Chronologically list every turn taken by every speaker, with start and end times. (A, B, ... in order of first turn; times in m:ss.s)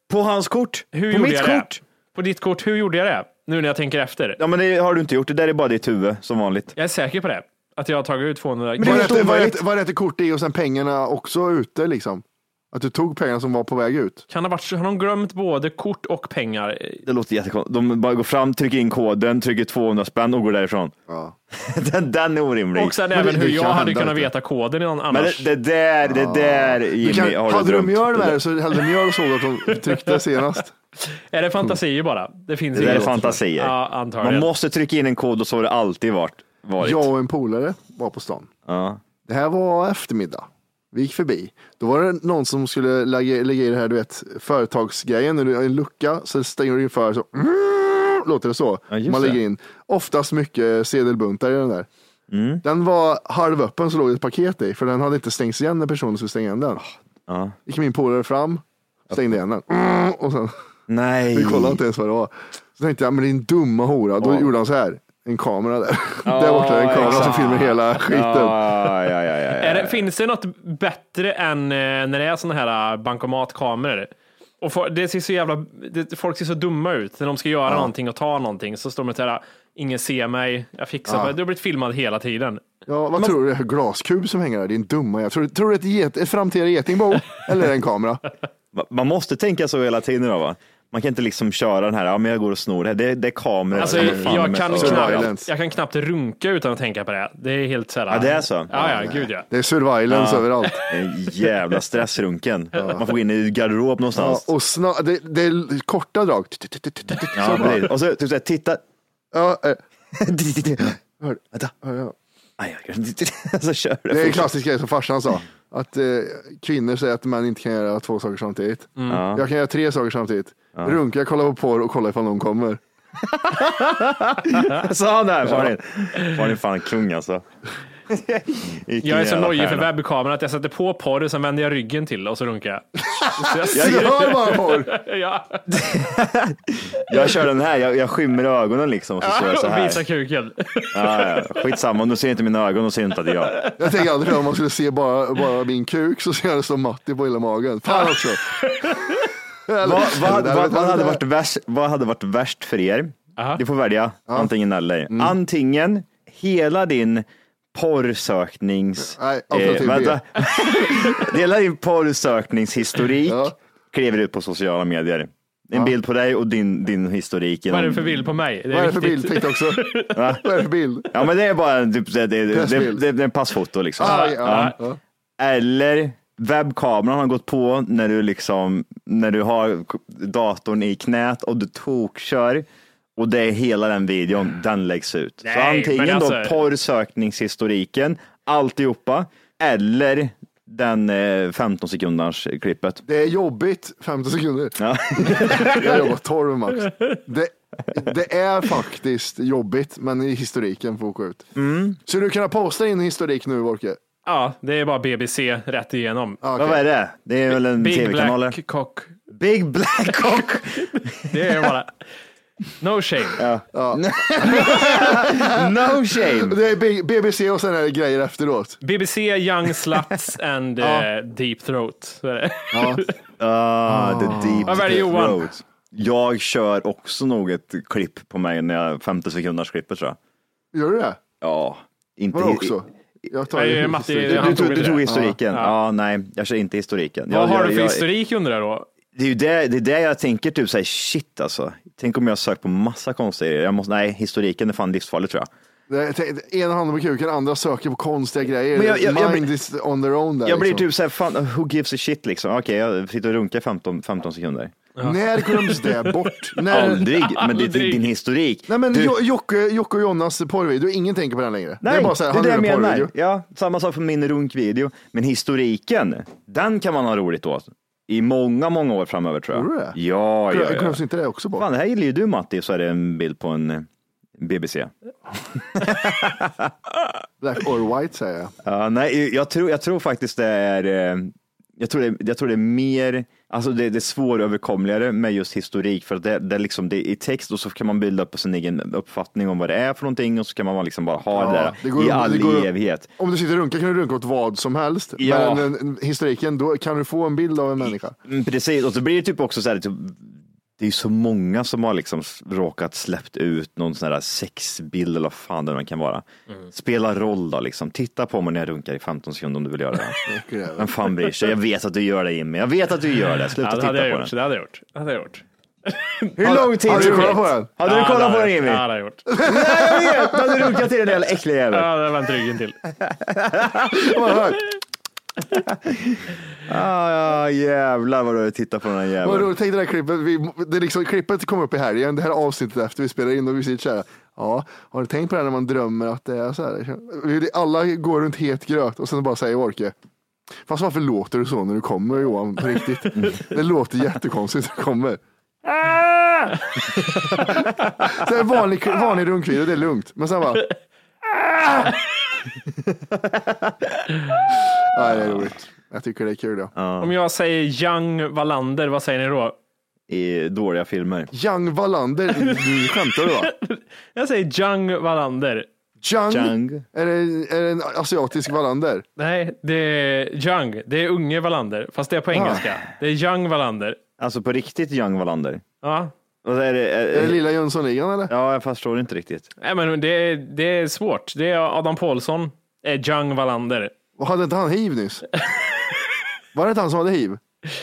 0:00.1-0:01.8 A
0:00.9-0:04.4 B
0:04.4-0:06.7 A
0:06.8-0:09.3 B
0:08.8-0:09.6 A
0:08.8-0:14.2 C
0:14.3-0:17.0 B
0:17.0-0:20.9 A
0:21.1-0:21.3 C
0:21.5-0:23.0 A
0:22.7-0:25.5 B
0:23.1-0:24.3 C
0:25.1-0:28.4 A
0:26.1-0:30.7 C
0:31.0-0:34.5 B
0:32.7-0:37.1 A
0:32.8-0:33.3 C
0:36.8-0:38.5 C
0:38.7-0:39.0 A
0:39.2-0:51.9 C
0:48.9-0:49.4 A
0:52.3-0:52.6 A
0:52.6-0:56.8 C
0:56.8-0:57.6 A
0:57.7-1:00.5 C
0:59.1-0:59.4 A
1:00.9-1:01.8 A
1:01.3-1:08.6 C
1:04.2-1:04.5 A
1:06.2-1:10.1 A
1:07.0-1:07.5 B
1:09.6-1:22.6 B
1:21.1-1:21.3 C
1:22.9-1:28.2 C
1:28.7-1:35.3 A
1:33.7-1:35.5 C
1:33.8-1:39.5 B
1:38.1-1:39.2 A
1:38.7-1:40.8 C
1:40.1-1:44.5 A
1:42.7-1:43.0 C
1:44.1-1:47.9 C
1:47.3-1:48.8 A
1:49.3-1:49.8 C
1:50.1-1:51.0 A
1:51.2-1:52.1 C
1:52.6-1:54.5 A
1:54.1-2:02.8 C
1:59.0-1:59.2 B
1:59.1-1:59.4 A
2:03.2-2:07.4 A
2:08.1-2:09.9 A
2:09.0-2:15.7 B
2:13.4-2:14.9 C
2:13.7-2:14.2 A
2:15.7-2:20.0 A
2:19.2-2:21.7 B
2:20.9-2:23.6 A
2:23.5-2:23.8 B
2:23.8-2:28.9 C
2:28.6-2:29.2 B
2:29.7-2:31.2 C
2:29.8-2:48.2 A
2:33.4-2:33.6 B
2:35.1-2:35.3 C
2:39.0-2:40.2 C
2:43.2-2:43.5 C
2:47.7-2:50.2 B
2:48.7-2:51.1 C
2:50.1-2:50.4 A
2:51.1-2:54.7 A
2:52.5-2:53.0 C
2:54.0-2:55.0 C
2:54.0-2:54.8 B
2:55.4-3:13.0 A
3:05.4-3:06.6 B
3:13.0-3:21.4 C
3:14.8-3:16.1 A
3:21.5-3:22.0 A
3:22.0-3:24.0 C
3:24.2-3:26.4 B
3:26.4-3:26.8 C
3:26.6-3:28.6 A
3:27.5-3:29.2 B
3:29.3-3:31.5 A
3:30.0-3:31.9 B
3:32.8-3:33.4 B
3:33.4-3:36.6 A
3:33.7-3:38.8 C
3:38.8-3:43.1 B
3:40.8-3:41.1 C
3:42.7-3:43.0 C
3:43.4-3:50.2 A
3:43.9-3:44.8 C
3:44.7-3:45.5 B
3:50.7-3:51.2 C
3:51.4-3:52.8 A
3:52.3-3:55.4 C
3:53.5-3:55.8 B
3:54.2-3:58.0 A
3:57.3-3:58.9 B
3:59.1-4:05.5 A
4:05.9-4:10.8 C
4:08.7-4:09.5 A
4:10.4-4:14.8 A
4:15.0-4:18.1 B
4:15.0-4:17.1 C
4:16.7-4:19.2 A
4:18.7-4:23.1 C
4:21.8-4:31.0 A
4:29.5-4:30.0 C
4:30.5-4:31.7 C
4:31.5-4:34.9 A
4:35.6-4:36.7 A
4:37.4-4:38.5 C
4:38.6-4:53.1 A
4:51.3-4:58.1 C
4:55.2-4:55.7 A
4:57.8-5:10.2 A
5:10.2-5:10.9 C
5:10.8-5:14.3 A
5:13.6-5:19.2 B
5:16.4-5:18.8 A
5:16.4-5:17.7 C
5:19.3-5:20.8 C
5:19.4-5:21.9 A
5:21.7-5:22.8 B
5:23.0-5:24.1 A
5:23.9-5:24.6 C
5:25.7-5:29.5 A
5:29.2-5:39.9 C
5:40.6-5:45.2 C
5:47.1-5:47.7 B
5:47.5-5:50.6 C
5:54.9-5:56.7 C
5:55.0-5:55.5 A
5:56.7-5:57.1 A
5:57.0-5:59.6 B
6:00.1-6:01.3 A
6:01.3-6:03.5 C
6:03.4-6:05.7 B
6:06.0-6:09.0 C
6:06.3-6:06.8 A
6:09.2-6:14.0 B
6:12.3-6:12.6 C
6:14.2-6:15.6 A
6:15.8-6:16.1 B
6:16.4-6:17.4 A
6:17.1-6:18.3 C
6:18.3-6:19.5 A
6:19.6-6:23.9 B
6:24.2-6:25.2 C
6:26.5-6:27.4 C